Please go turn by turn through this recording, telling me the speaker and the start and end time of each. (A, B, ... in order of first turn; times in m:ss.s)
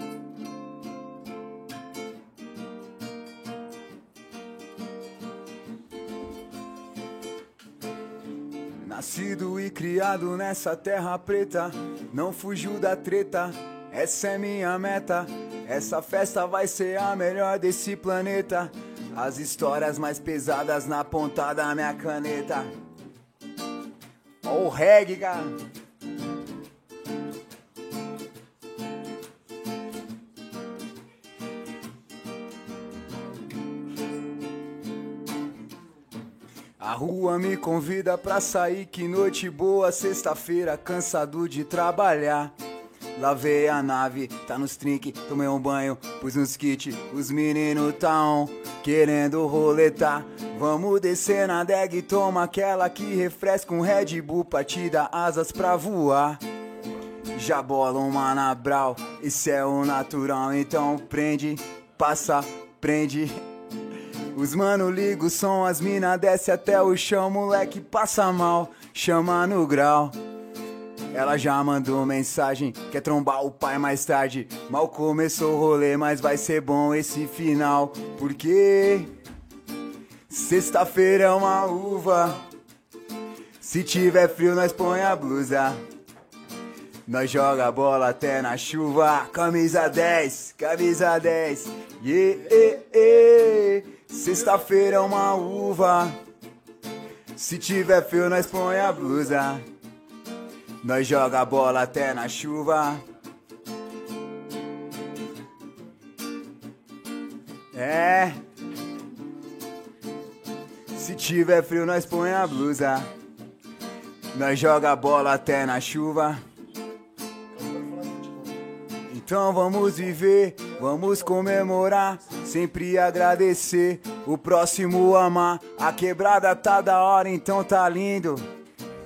0:08.8-0:22.7 A
0:24.4-0:25.6 A
0:36.8-0:42.5 A
0:43.2-0:56.4 A
0:57.3-1:03.4 A
1:04.3-1:10.2 A
1:11.1-1:19.1 A
1:20.3-1:22.4 A
1:21.8-1:22.4 B
1:23.6-1:25.8 A
1:24.3-1:25.5 B
1:27.1-1:36.2 A
1:32.3-1:32.9 B
1:34.3-1:36.0 B
1:37.4-1:39.6 A
1:37.9-1:39.4 B
1:40.8-1:43.0 A
1:47.7-1:48.4 A
1:50.9-1:53.1 A
1:54.3-1:56.4 A
1:57.5-1:58.6 B
1:59.1-2:08.4 A
2:00.8-2:01.6 B